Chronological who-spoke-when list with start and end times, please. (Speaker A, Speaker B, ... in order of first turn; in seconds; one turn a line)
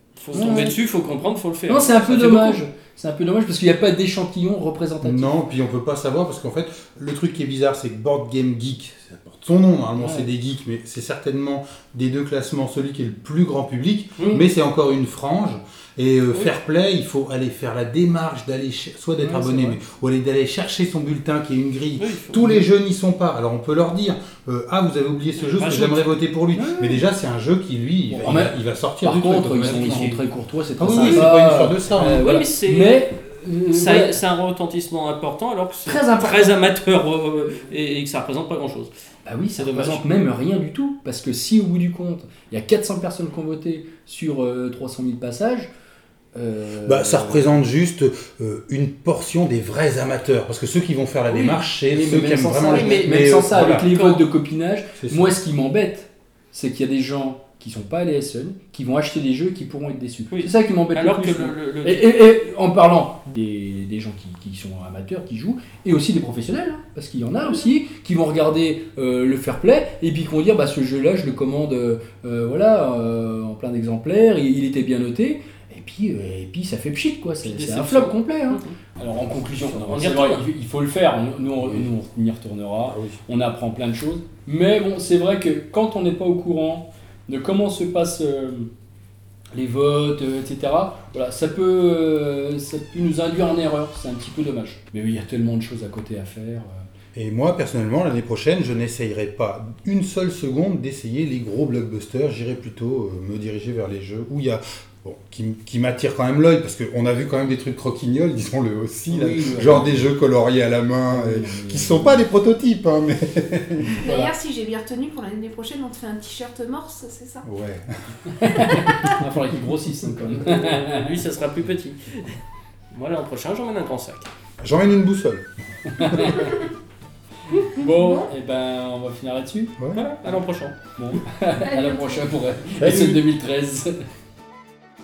Speaker A: 0.2-2.6
Speaker B: 0.3-0.8
Speaker B: 1.7-5.3
Speaker C: 5.0-30.2
Speaker B: 10.0-10.3
Speaker A: 14.2-14.5
Speaker B: 19.2-19.8
Speaker A: 22.0-22.5
Speaker A: 25.4-26.1
Speaker B: 26.5-27.1
Speaker B: 28.1-34.2
Speaker A: 29.5-30.2
Speaker C: 30.8-32.2
Speaker A: 30.9-31.3
Speaker A: 31.9-33.1
Speaker A: 33.7-38.9
Speaker B: 35.9-36.6
Speaker B: 39.2-45.7
Speaker A: 39.6-40.1
Speaker B: 46.3-47.5
Speaker C: 46.8-53.9
Speaker B: 51.3-88.7
Speaker A: 52.6-54.2
Speaker C: 55.0-55.4
Speaker A: 60.3-62.1
Speaker A: 77.4-78.8
Speaker A: 79.6-80.5
Speaker C: 82.8-83.2
Speaker B: 89.5-96.8
Speaker C: 97.2-114.0
Speaker B: 109.1-110.1
Speaker B: 111.1-112.3
Speaker B: 113.9-114.3
Speaker D: 114.0-117.5
Speaker C: 117.4-119.2
Speaker B: 118.4-121.1
Speaker A: 120.5-122.4
Speaker A: 122.9-124.3
Speaker C: 124.6-125.5
Speaker B: 125.9-126.7
Speaker C: 126.0-126.4
Speaker B: 127.5-129.8
Speaker D: 127.8-128.2
Speaker C: 129.8-130.0
Speaker A: 129.9-130.8
Speaker B: 131.0-134.0
Speaker D: 131.6-132.3
Speaker C: 132.8-133.2